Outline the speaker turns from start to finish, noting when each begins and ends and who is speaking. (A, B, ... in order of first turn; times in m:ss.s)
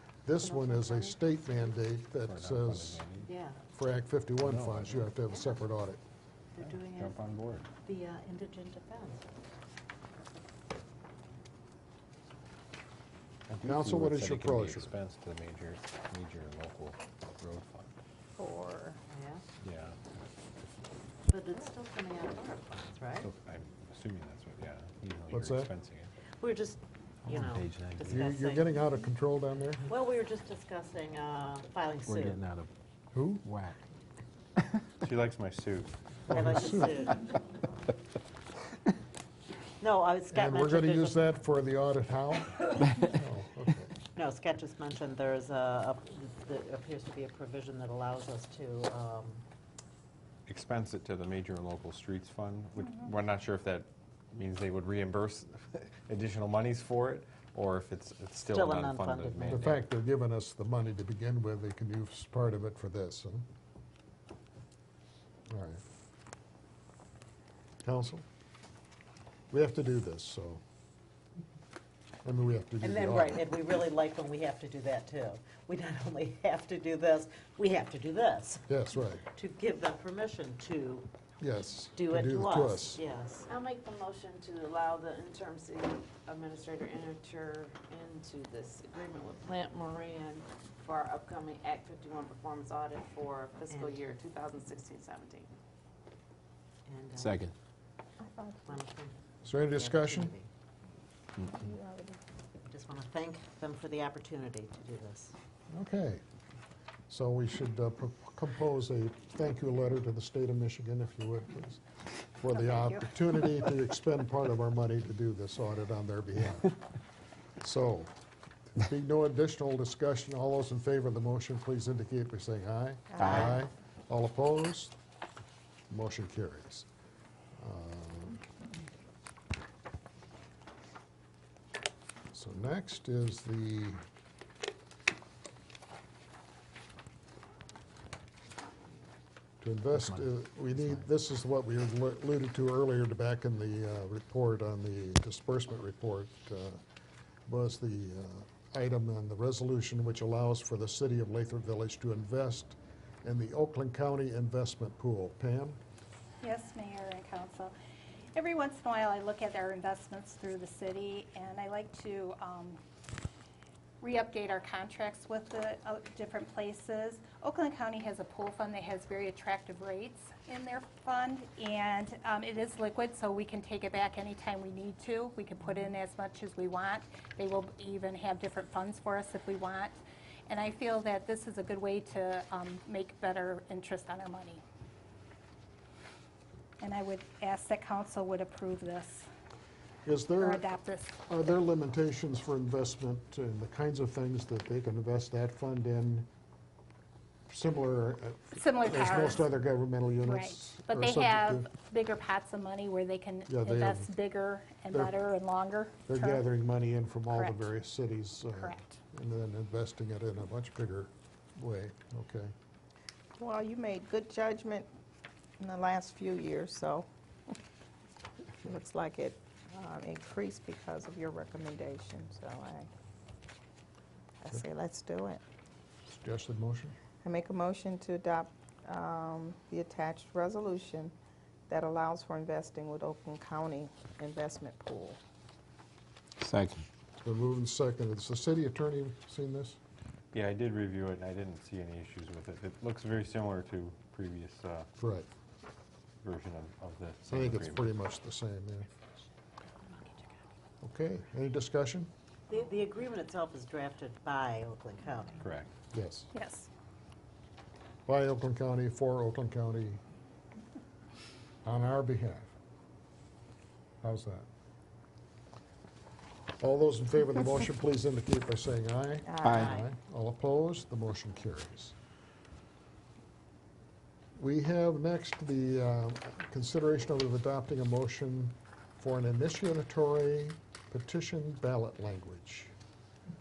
0:00.2-0:03.0 A
0:00.4-0:01.4 B
0:02.2-0:03.3 C
0:03.2-0:03.6 B
0:03.7-0:06.0 A
0:04.4-0:05.1 C
0:05.3-0:05.6 B
0:06.6-0:07.2 B
0:06.6-0:07.7 C
0:07.8-0:09.2 B
0:13.5-0:17.9 C
0:13.6-0:14.9 A
0:18.4-0:19.0 D
0:19.1-0:19.4 B
0:19.6-0:20.0 C
0:21.3-0:23.3 B
0:23.2-0:26.1 C
0:25.3-0:25.7 A
0:26.4-0:28.8 B
0:27.3-0:28.3 E
0:28.1-0:29.9 A
0:29.8-0:32.4 B
0:32.1-0:32.7 E
0:33.1-0:33.4 A
0:33.4-0:33.7 E
0:35.0-0:36.4 C
0:36.3-0:37.1 B
0:36.3-0:37.1 A
0:39.8-0:41.3 B
0:40.3-0:43.9 A
0:44.1-0:49.4 B
0:50.5-0:59.8 C
0:58.5-0:59.6 B
0:59.5-1:03.5 A
1:05.5-1:05.8 A
1:07.8-1:08.2 A
1:09.5-1:10.6 A
1:12.2-1:13.5 A
1:12.8-1:18.7 B
1:18.7-1:19.2 A
1:19.3-1:21.1 B
1:21.4-1:23.0 A
1:21.9-1:23.4 B
1:23.4-1:35.6 F
1:33.7-1:34.0 B
1:36.8-1:37.4 B
1:37.2-1:37.5 E
1:38.2-1:38.8 D
1:38.6-1:40.5 B
1:39.4-1:40.3 A
1:41.4-1:42.2 D
1:42.7-1:45.3 B
1:45.7-1:46.2 A
1:47.1-1:51.8 A
1:52.4-1:56.7 A
1:57.6-1:58.1 A
1:58.7-2:04.9 A
2:03.1-2:03.6 D
2:05.9-2:06.9 A
2:07.6-2:08.4 A
2:12.3-2:14.0 A
2:19.6-2:26.8 A
2:27.5-2:35.8 A
2:36.4-2:37.7 G
2:38.3-2:42.8 G
2:44.0-3:04.6 G
3:06.8-3:09.3 G
3:10.0-3:10.7 A
3:10.3-3:11.2 G
3:11.2-3:16.3 A
3:17.5-3:21.7 A
3:18.5-3:19.5 G
3:20.2-3:26.5 G
3:23.5-3:24.1 A
3:24.9-3:25.2 A
3:26.0-3:32.5 A
3:27.3-3:27.7 G
3:28.5-3:29.0 G
3:33.4-3:34.9 D
3:35.6-3:37.6 D
3:38.6-3:42.9 D
3:44.4-3:45.4 D
3:46.1-3:47.0 A
3:47.2-3:51.1 D
3:51.7-3:55.2 D
3:56.4-3:56.8 E
3:57.2-3:59.8 A
4:00.3-4:04.9 C
4:05.0-4:05.3 A
4:06.2-4:07.9 C
4:07.3-4:08.9 A
4:10.8-4:12.1 A
4:12.5-4:15.4 B
4:15.4-4:15.7 C
4:15.9-4:16.3 A
4:16.3-4:16.7 G
4:18.1-4:20.0 A
4:21.6-4:22.5 A
4:24.0-4:24.4 A
4:26.6-4:31.9 A
4:29.2-4:29.7 D
4:29.4-4:29.7 E
4:29.6-4:29.9 B
4:34.4-4:42.7 A